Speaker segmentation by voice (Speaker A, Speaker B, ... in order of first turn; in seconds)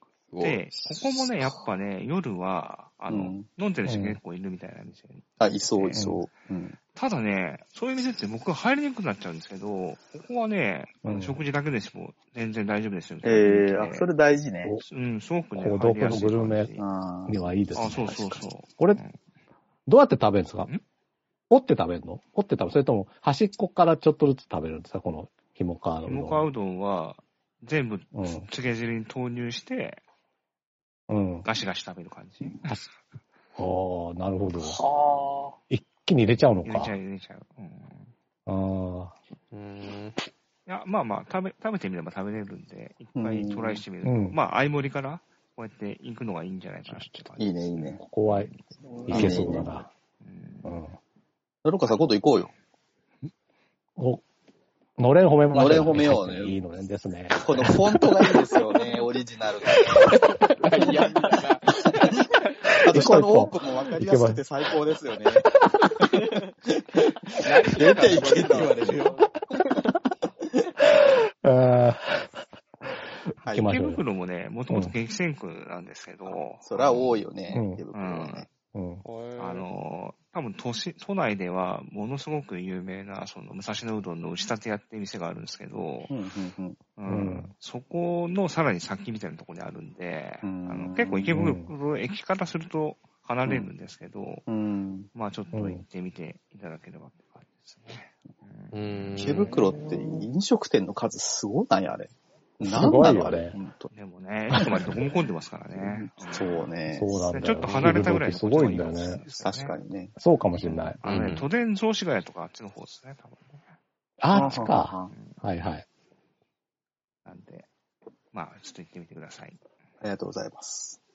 Speaker A: 0.3-0.6, 39.5-40.2, 60.5-62.5, 67.3-69.2, 79.0-79.7, 98.7-99.5, 111.0-111.5
Speaker B: 0.4-6.2, 6.9-14.1, 14.8-16.8, 17.8-19.2, 26.1-30.0, 31.4-32.8, 36.6-38.1, 40.7-48.6, 50.2-50.8, 73.6-77.3, 77.9-78.5, 79.4-86.1, 87.0-94.5, 95.1-99.4, 103.9-109.8, 110.6-113.7, 114.4-115.4, 117.2-117.7, 118.3-119.6
Speaker C: 0.9-1.2, 3.1-3.5, 5.4-6.8, 13.2-14.8, 16.8-18.4, 43.2-43.8, 47.4-48.0, 49.1-49.8, 51.6-52.5, 55.5-56.6, 57.3-60.2, 62.7-65.5, 66.7-69.3, 73.4-73.8, 76.3-78.5, 86.1-86.8, 90.4-91.4, 94.5-95.1, 99.2-103.9, 104.6-104.8, 105.8-107.1, 109.4-110.1, 114.3-115.1, 120.0-121.0
Speaker D: 3.9-4.2, 11.0-11.4, 15.6-16.7, 17.3-18.3, 19.9-20.7, 21.5-26.5, 28.1-28.5, 31.1-31.5, 33.6-34.8, 35.7-37.0, 38.5-39.1, 44.0-44.4, 48.0-48.5, 49.1-49.9, 50.6-50.9, 54.0-54.2, 55.0-58.1, 62.9-64.4, 70.9-72.3, 73.5-74.0, 77.5-77.8, 78.7-79.0, 87.1-87.5, 91.3-91.7, 95.5-95.8, 102.6-103.6, 106.9-109.2, 110.2-111.0, 114.2-115.8
Speaker E: 34.6-35.6, 48.8-49.7, 68.8-69.2, 99.5-100.3